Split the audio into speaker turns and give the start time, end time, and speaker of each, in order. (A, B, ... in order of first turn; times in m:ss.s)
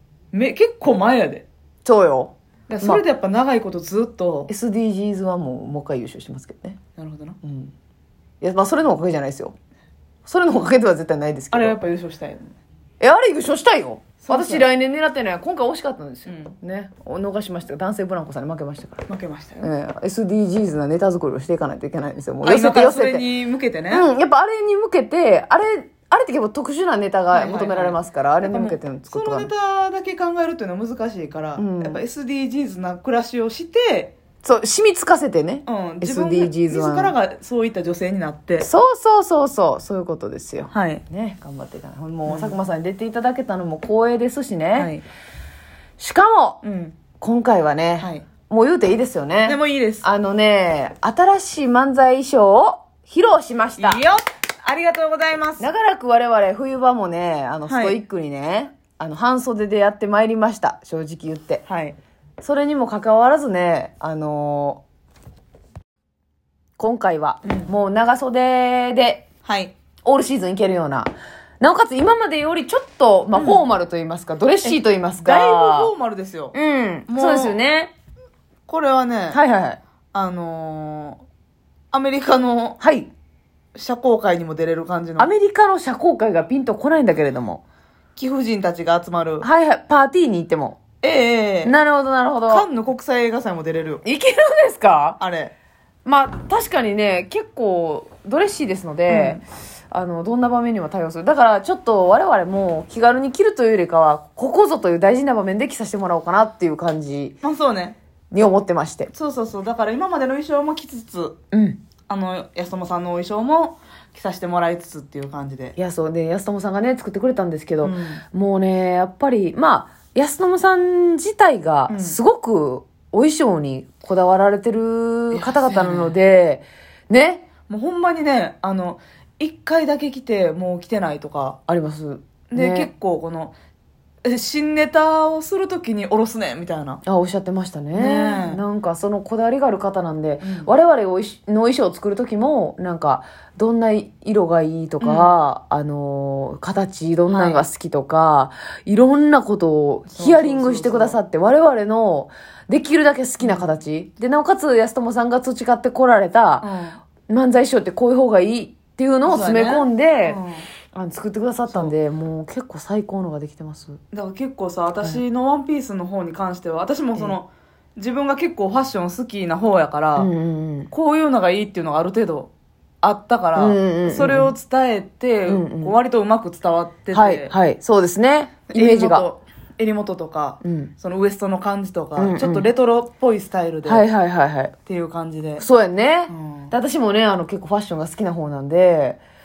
0:00.3-0:01.5 A
0:01.8-0:03.0 B
0:02.7-0:04.5 A
0:04.5-0:06.8 B
0:07.0-0:07.4 A
0:07.4-0:07.7 B
0:08.4-0:09.6 B
0:10.2-0:11.8 B
0:11.5-0:12.6 A
0:13.0-0:19.1 B
0:14.2-0:14.7 A
0:16.3-0:16.5 A
0:19.1-0:19.7 A
0:19.6-0:23.3 B
0:22.4-0:24.1 A
0:23.9-0:29.5 B
0:27.3-0:34.2 A
0:31.6-0:32.0 B
0:34.4-0:37.2 B
0:35.7-0:38.7 A
0:38.6-0:44.9 B
0:40.7-0:41.0 A
0:42.3-0:42.6 A
0:44.8-0:45.0 A
0:46.0-0:46.6 B
0:46.6-0:47.0 A
0:47.2-0:54.0 B
0:48.0-0:48.3 A
0:49.4-0:50.0 A
0:53.8-0:55.7 A
0:55.6-1:01.6 B
0:57.7-0:58.0 A
1:01.7-1:02.0 A
1:02.4-1:04.8 B
1:06.8-1:09.2 B
1:07.4-1:07.7 A
1:09.4-1:09.7 A
1:10.0-1:15.9 B
1:13.3-1:13.6 A
1:14.6-1:16.5 A
1:16.5-1:17.9 B
1:17.1-1:17.6 A
1:18.7-1:19.4 A
1:19.3-1:19.8 B
1:20.1-1:21.2 A
1:21.9-1:22.8 A
1:22.8-1:23.1 B
1:23.8-1:25.3 A
1:25.2-1:27.6 B
1:28.2-1:29.5 A
1:29.4-1:30.8 B
1:31.0-1:31.7 A
1:31.6-1:32.7 B
1:32.5-1:34.0 A
1:34.0-1:35.2 B
1:35.2-1:35.5 A
1:36.0-1:47.4 B
1:39.1-1:39.4 A
1:47.4-1:48.0 A
1:48.3-1:49.1 B
1:49.1-1:51.4 A
1:51.5-1:51.8 B
1:52.1-1:55.8 A
1:55.8-2:07.5 B
1:57.8-1:58.2 A
2:01.9-2:02.2 A
2:05.3-2:06.2 A
2:07.7-2:11.6 A
2:11.7-2:12.9 B
2:12.5-2:13.6 A
2:14.2-2:17.0 A
2:17.0-2:36.7 B
2:17.9-2:18.6 A
2:20.4-2:20.7 A
2:25.0-2:25.3 A
2:27.3-2:27.6 A
2:30.1-2:31.2 A
2:33.4-2:33.7 A
2:36.6-2:37.0 A
2:37.3-2:40.4 B
2:39.2-2:40.7 A
2:40.9-2:44.0 B
2:41.7-2:41.9 A
2:44.1-2:50.3 A
2:50.2-2:50.9 B
2:50.9-2:52.5 A
2:53.0-2:57.5 A
2:53.6-2:54.5 B
2:55.5-2:56.0 B
2:57.1-2:59.2 B
2:58.7-3:04.1 A
3:00.6-3:00.9 B
3:02.2-3:02.7 B
3:03.8-3:04.8 B
3:04.9-3:05.6 A
3:05.6-3:09.2 B
3:06.3-3:06.7 A